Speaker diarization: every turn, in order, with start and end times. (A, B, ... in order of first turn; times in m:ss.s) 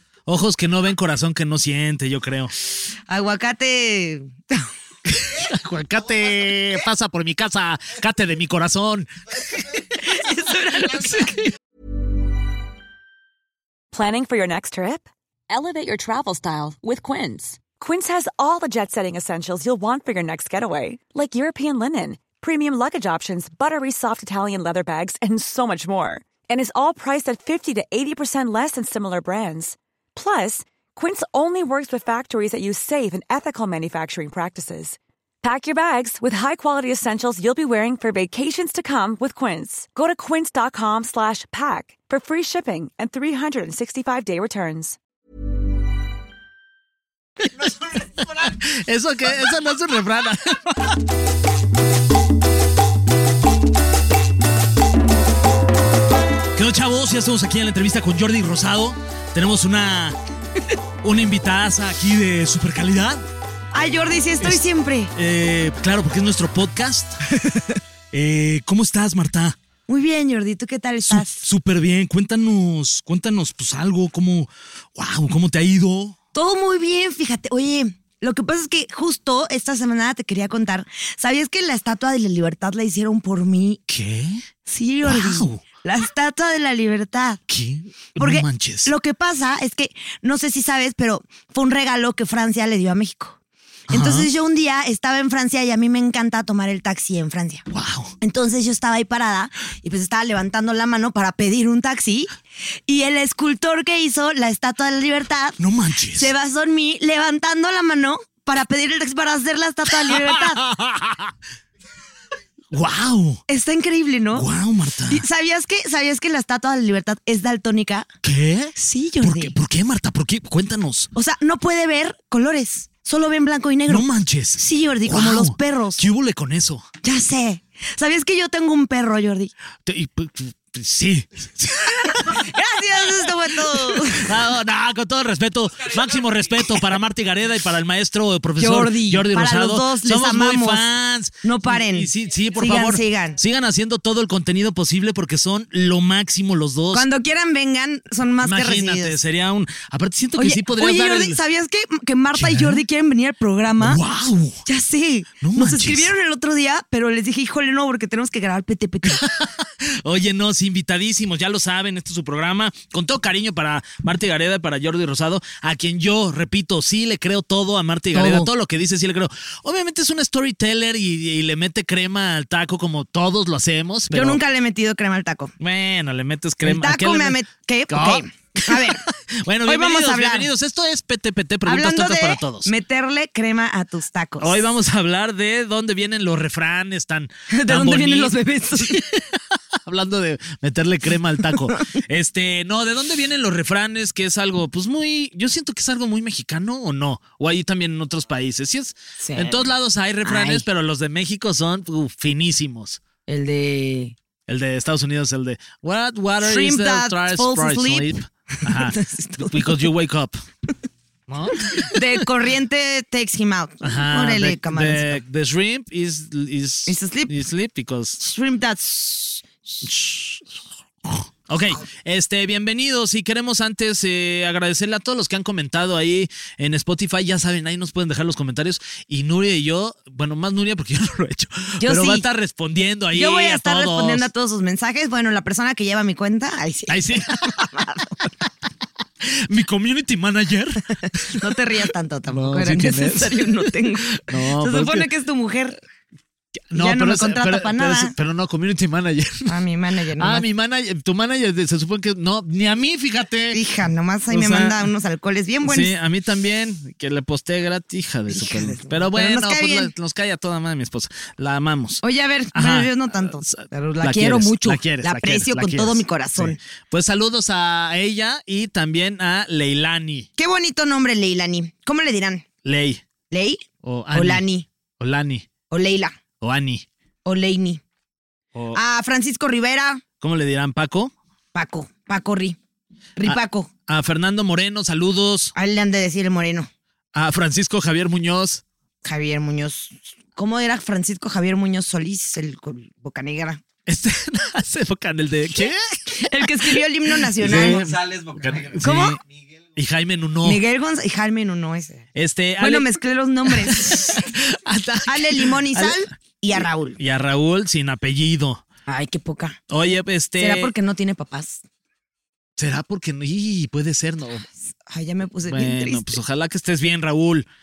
0:00.2-0:02.5 A
0:03.1-0:04.7 B
0:05.2-0:09.1 A
0:09.9-0:11.5 B
0:13.9-0:45.0 C
0:47.4-0:51.0 A
0:56.5-1:00.2 A
1:01.0-1:03.2 A
1:03.7-1:05.1 B
1:05.1-1:07.2 A
1:08.1-1:09.6 A
1:09.9-1:11.4 B
1:11.0-1:16.2 A
1:16.3-1:23.8 B
1:23.9-1:24.4 A
1:24.7-1:27.4 B
1:25.0-1:25.6 A
1:27.5-1:28.9 A
1:28.2-1:33.4 B
1:33.9-1:34.3 A
1:33.9-1:37.6 B
1:37.7-1:38.1 A
1:38.2-1:42.3 B
1:42.9-1:45.6 B
1:45.6-1:46.3 A
1:46.1-1:50.6 B
1:50.0-1:51.3 A
1:52.7-1:53.4 A
1:53.5-1:54.5 B
1:54.3-1:55.2 A
1:55.1-1:58.1 B
1:58.2-2:01.1 A
1:58.8-1:59.5 B
2:01.1-2:06.0 B
2:03.9-2:06.9 A
2:07.0-2:09.5 B
2:09.8-2:12.4 A
2:12.2-2:14.4 B
2:13.6-2:27.1 A
2:18.6-2:20.8 B
2:21.4-2:23.4 B
2:26.9-2:29.2 B
2:28.4-2:31.4 A
2:30.4-2:34.0 B
2:32.3-2:32.8 A
2:33.8-2:34.6 A
2:34.6-2:39.2 B
2:35.4-2:36.1 A
2:39.0-2:54.4 A
2:48.1-2:48.5 B
2:54.1-2:55.5 B
2:55.6-3:02.7 A
2:56.6-2:59.0 B
2:59.6-3:00.5 B
3:01.6-3:04.6 B
3:04.4-3:23.0 A
3:07.5-3:09.0 B
3:19.2-3:19.7 B
3:20.2-3:20.6 B
3:23.3-3:24.1 B
3:24.5-3:30.4 A
3:26.4-3:29.9 B
3:31.3-3:32.2 A
3:31.8-3:35.2 B
3:33.8-3:38.2 A
3:36.9-3:37.3 B
3:38.2-3:39.8 B
3:39.8-3:54.3 A
3:51.8-3:52.2 B
3:53.1-3:58.2 B
3:56.9-3:57.7 A
3:59.2-4:01.4 A
4:01.3-4:05.8 B
4:02.3-4:05.1 A
4:06.7-4:09.5 A
4:06.7-4:08.1 B
4:09.4-4:10.4 B
4:10.2-4:13.6 A
4:13.5-4:15.9 B
4:14.3-4:14.8 A
4:15.6-4:22.0 A
4:18.3-4:19.9 B
4:22.0-4:26.6 B
4:22.5-4:30.3 A
4:30.4-4:32.4 B
4:32.6-4:33.0 A
4:33.3-4:34.7 B
4:33.8-4:34.4 A
4:35.0-4:35.5 A
4:35.7-4:36.1 B
4:36.4-4:36.8 A
4:37.2-4:37.8 B
4:38.5-4:38.8 A
4:38.7-4:40.0 B
4:40.2-4:41.1 A
4:41.5-4:42.6 B
4:43.2-4:43.7 B
4:43.2-4:45.5 A
4:45.5-4:46.7 B
4:47.1-4:48.6 A
4:49.0-4:53.6 B
4:53.8-4:59.2 A
4:56.1-4:58.0 B
4:58.8-4:59.2 B
4:59.7-5:00.6 A
5:00.4-5:02.0 B
5:02.1-5:02.9 A
5:02.6-5:04.3 B
5:03.5-5:06.0 A
5:05.1-5:07.0 B
5:06.6-5:08.6 A
5:08.9-5:09.6 B
5:09.7-5:10.7 A
5:10.4-5:11.6 B
5:12.6-5:14.4 A
5:14.9-5:16.2 B
5:15.4-5:17.5 A